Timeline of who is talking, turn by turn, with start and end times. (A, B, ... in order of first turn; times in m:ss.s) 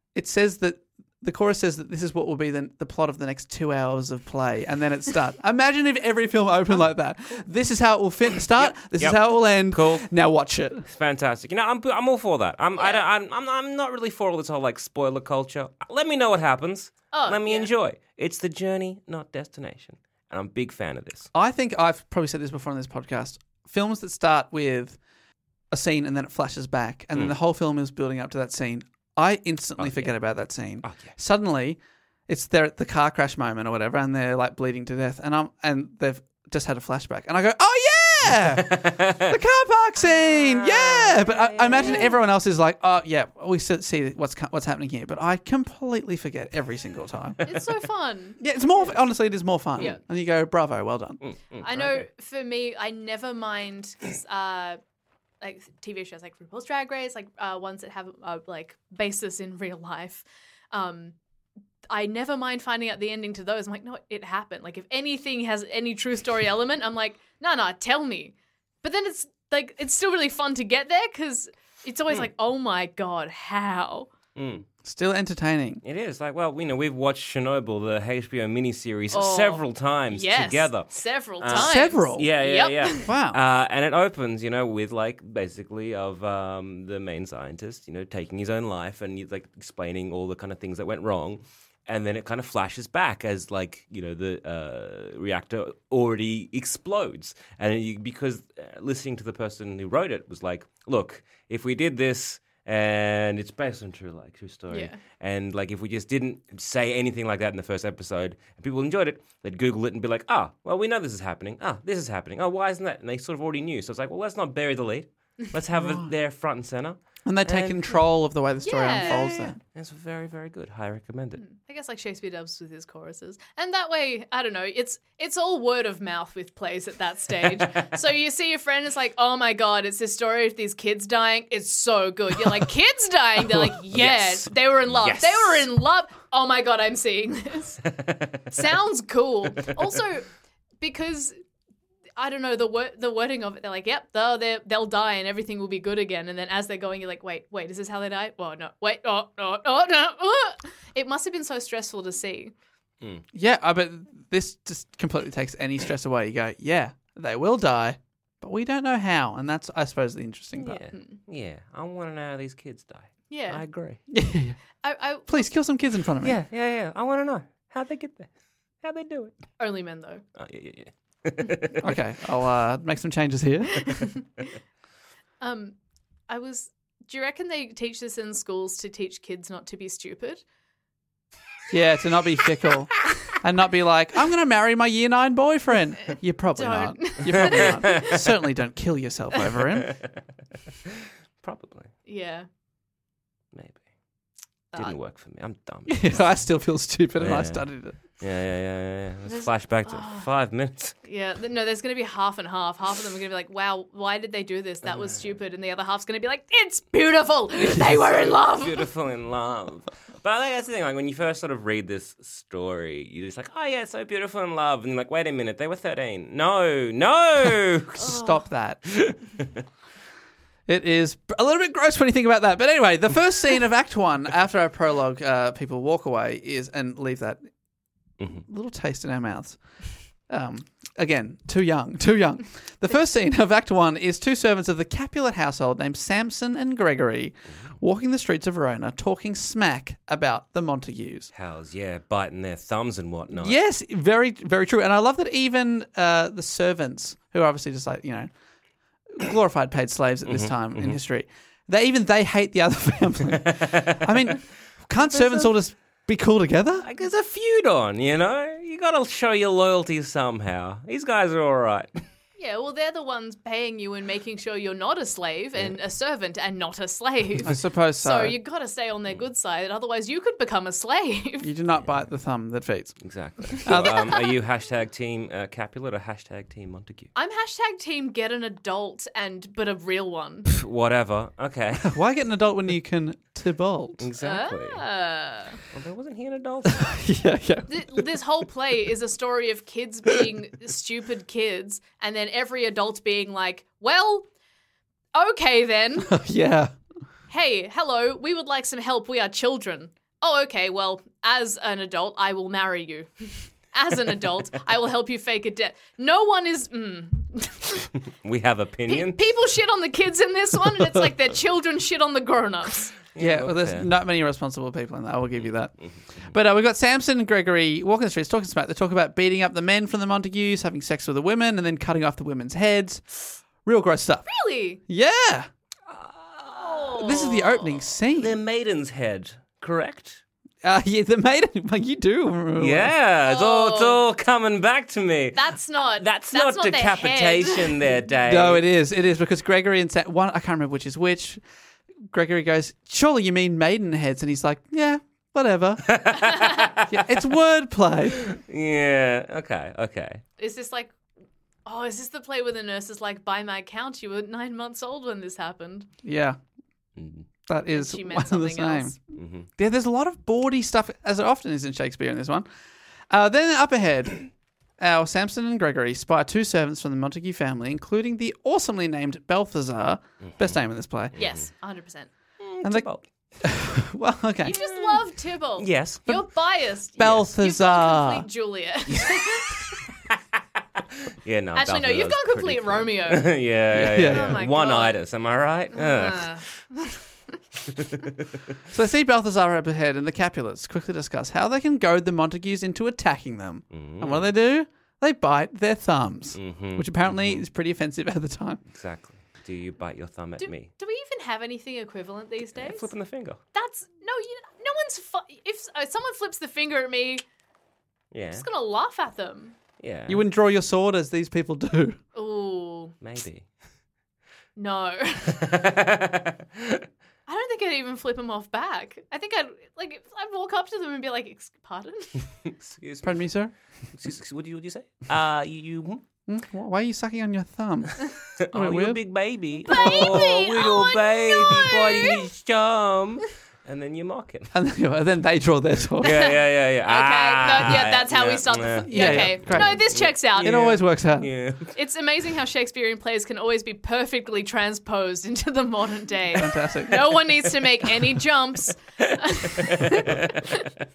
0:00.2-0:10.8 A
0:08.6-0:10.1 B
0:10.9-0:21.3 B
0:12.8-0:13.0 C
0:17.1-0:17.7 C
0:21.3-0:25.0 A
0:25.7-0:47.4 A
0:29.8-0:30.1 B
0:30.8-0:31.1 B
0:38.4-0:39.3 B
0:40.1-0:42.0 B
0:41.8-0:42.1 C
0:47.4-0:48.9 C
0:48.4-0:51.2 A
0:51.2-0:52.1 B
0:51.6-0:54.8 C
0:55.4-1:01.2 C
1:01.9-1:14.1 C
1:14.4-1:14.6 B
1:14.8-1:15.8 A
1:15.8-1:58.0 B
1:19.1-1:23.1 C
1:21.5-1:22.3 A
1:23.0-1:23.4 A
1:44.7-1:45.0 C
1:55.7-1:56.1 A
1:57.2-1:59.6 A
1:58.6-1:59.5 C
1:59.0-2:01.4 B
2:01.4-2:17.8 C
2:13.9-2:15.7 B
2:17.9-2:18.6 B
2:18.5-2:20.3 C
2:20.8-2:21.4 C
2:22.2-2:32.5 C
2:33.3-2:40.8 A
2:40.6-2:44.0 B
2:43.3-2:43.6 C
2:44.1-2:44.6 A
2:44.8-2:45.5 C
2:45.3-2:46.4 A
2:46.2-2:48.3 B
2:48.8-2:49.4 B
2:49.6-2:50.2 C
2:50.4-2:51.8 B
2:51.8-2:54.0 A
2:55.4-2:55.8 C
2:56.3-3:00.4 C
3:01.7-3:09.9 A
3:06.6-3:08.1 C
3:07.3-3:08.2 B
3:11.4-3:11.9 B
3:12.1-3:12.5 C
3:13.5-3:13.8 B
3:14.7-3:16.3 B
3:15.9-3:18.0 A
3:17.2-3:17.7 B
3:18.2-3:21.0 B
3:19.3-3:20.3 C
3:21.0-3:28.9 C
3:24.9-3:25.3 B
3:28.2-3:38.2 B
3:38.0-3:38.9 A
3:38.9-3:39.6 B
3:40.7-3:47.4 A
3:48.4-3:49.6 A
3:50.3-4:01.3 A
4:01.3-4:03.6 B
4:03.3-4:08.3 A
4:09.1-4:16.9 A
4:10.3-4:11.0 B
4:13.4-4:14.4 B
4:15.0-4:15.5 B
4:16.8-4:21.9 B
4:22.4-4:31.5 C
4:27.4-4:28.4 A
4:31.4-4:33.0 A
4:33.0-4:37.1 B
4:33.6-4:34.0 A
4:33.7-4:34.2 C
4:37.2-4:40.5 C
4:40.5-4:42.0 B
4:41.8-4:44.0 A
4:44.0-4:44.8 B
4:44.2-4:45.6 C
4:45.7-4:47.0 B
4:46.8-4:48.1 A
4:47.7-4:54.3 C
4:55.2-4:56.2 C
4:56.1-4:56.7 A
4:57.3-5:07.9 C
5:08.2-5:09.2 B
5:08.9-5:12.9 C
5:13.1-5:13.9 B
5:13.2-5:15.7 A
5:16.2-5:24.3 A
5:24.3-5:24.8 C
5:24.9-5:25.5 A
5:25.9-5:27.0 B
5:26.6-5:27.6 C
5:27.0-5:28.4 A
5:28.2-5:30.2 B
5:30.6-5:32.9 A
5:32.6-5:38.6 B
5:33.3-5:34.0 C
5:35.3-5:37.9 C
5:38.2-5:41.4 A
5:42.1-5:46.0 A
5:45.9-5:47.1 B
5:46.3-5:46.6 C
5:46.9-5:48.3 A
5:48.2-5:50.2 B
5:50.4-5:50.9 C
5:51.7-5:55.9 C
5:56.0-5:56.4 A
5:57.0-5:57.3 B
5:57.5-5:59.0 A
5:57.7-5:59.0 C
5:59.2-5:59.5 B
5:59.6-6:02.5 A
6:03.1-6:11.2 A
6:10.2-6:10.6 B
6:11.1-6:11.4 B
6:11.2-6:12.1 C
6:12.4-6:13.0 B
6:13.4-6:14.6 A
6:14.4-6:19.7 C
6:14.5-6:16.2 B
6:17.0-6:18.3 A
6:18.9-6:19.6 B
6:21.2-6:26.5 B
6:21.6-6:23.3 C
6:23.7-6:24.4 A
6:24.0-6:25.0 C
6:25.7-6:27.0 C
6:28.7-6:38.6 A
6:33.7-6:34.3 B
6:36.4-6:37.4 B
6:38.7-6:40.7 B
6:40.4-6:42.9 C
6:42.6-6:43.4 B
6:43.5-6:47.2 C
6:48.1-6:48.5 B
6:48.4-6:49.6 C
6:49.8-6:50.2 B
6:50.1-6:52.0 A
6:52.2-6:53.0 C
6:53.0-6:53.5 B
6:54.6-6:55.5 C
6:55.4-6:56.8 B
6:57.3-7:02.2 C
7:02.5-7:03.3 B
7:03.0-7:03.5 A
7:03.9-7:06.0 B
7:06.3-7:08.0 A
7:08.4-7:14.5 B
7:08.5-7:09.0 A
7:09.7-7:10.2 A
7:09.7-7:12.2 C
7:14.5-7:16.2 A
7:16.0-7:21.7 B
7:16.0-7:20.6 C
7:18.9-7:21.3 A
7:21.8-7:30.6 C
7:26.4-7:27.2 A
7:29.8-7:30.3 B